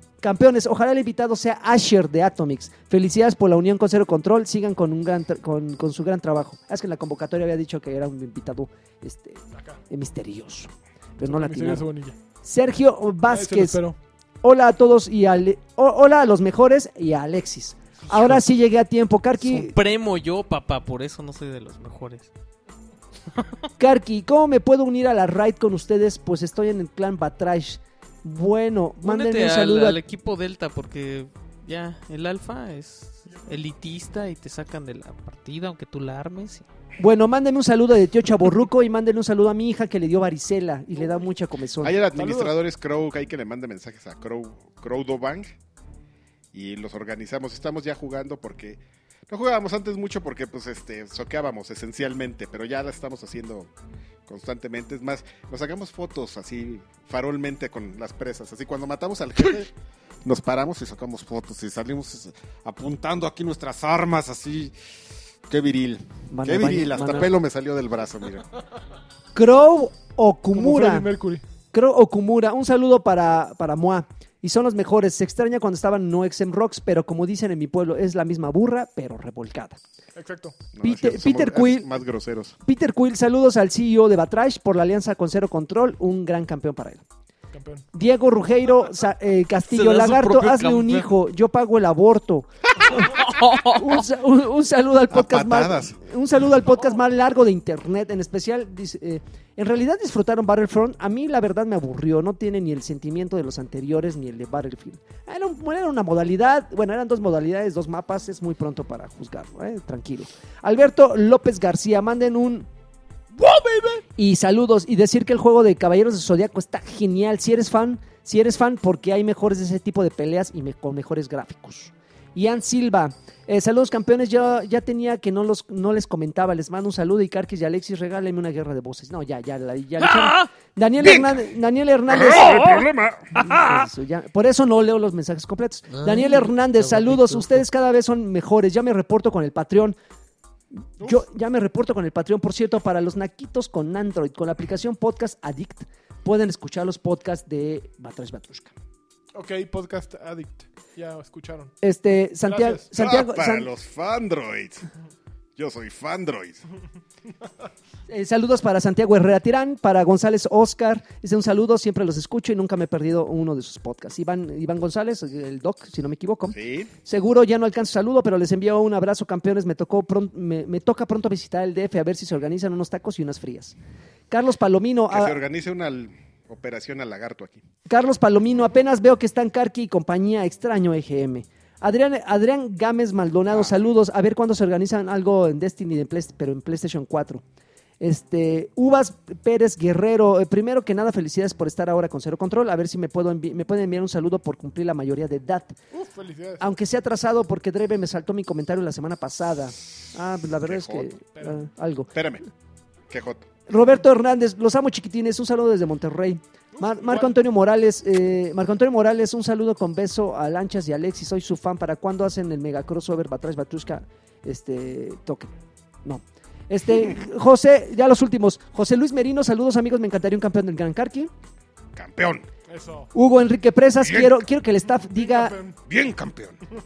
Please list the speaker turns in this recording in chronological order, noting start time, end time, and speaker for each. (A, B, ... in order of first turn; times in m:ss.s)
0:00.2-0:11.9 A
0:11.2-0:12.2 B
0:12.4-0:13.8 A
0:13.3-0:14.0 B
0:14.4-0:19.8 A
0:19.4-0:22.3 C
0:23.8-0:30.0 A
0:29.0-0:36.7 C
0:37.0-0:42.0 A
0:41.8-0:45.5 D
0:42.1-0:42.6 B
0:46.5-0:53.7 D
0:54.3-0:59.7 D
1:00.2-1:04.7 D
1:05.5-1:08.5 D
1:06.3-1:07.3 A
1:09.3-1:11.1 A
1:10.5-1:11.4 B
1:11.7-1:19.8 A
1:20.1-1:20.6 B
1:20.7-1:22.6 D
1:20.8-1:21.9 A
1:22.6-1:27.0 A
1:27.5-1:27.8 B
1:27.9-1:52.7 A
1:29.7-1:31.1 C
1:32.9-1:34.0 C
1:35.1-1:36.0 D
1:53.4-1:53.9 C
1:54.2-2:20.0 A
2:11.0-2:11.4 D
2:12.1-2:13.7 D
2:20.7-2:28.7 A
2:29.3-2:31.7 B
2:31.8-2:33.7 A
2:32.5-2:32.8 B
2:33.0-2:34.8 D
2:35.6-2:36.6 D
2:38.1-2:53.8 A
2:46.5-2:46.9 D
2:54.3-2:55.4 A
2:55.1-2:57.6 D
2:57.9-3:07.4 A
3:08.0-3:15.7 A
3:15.9-3:16.7 B
3:16.6-3:22.1 A
3:20.6-3:21.1 D
3:22.1-3:22.4 D
3:23.1-3:23.5 D
3:23.7-3:35.5 A
3:26.7-3:27.3 B
3:36.0-3:41.3 A
3:41.9-3:42.4 D
3:42.7-3:43.1 B
3:43.1-3:45.6 A
3:44.0-3:44.4 D
3:45.1-3:45.8 B
3:45.8-3:46.6 D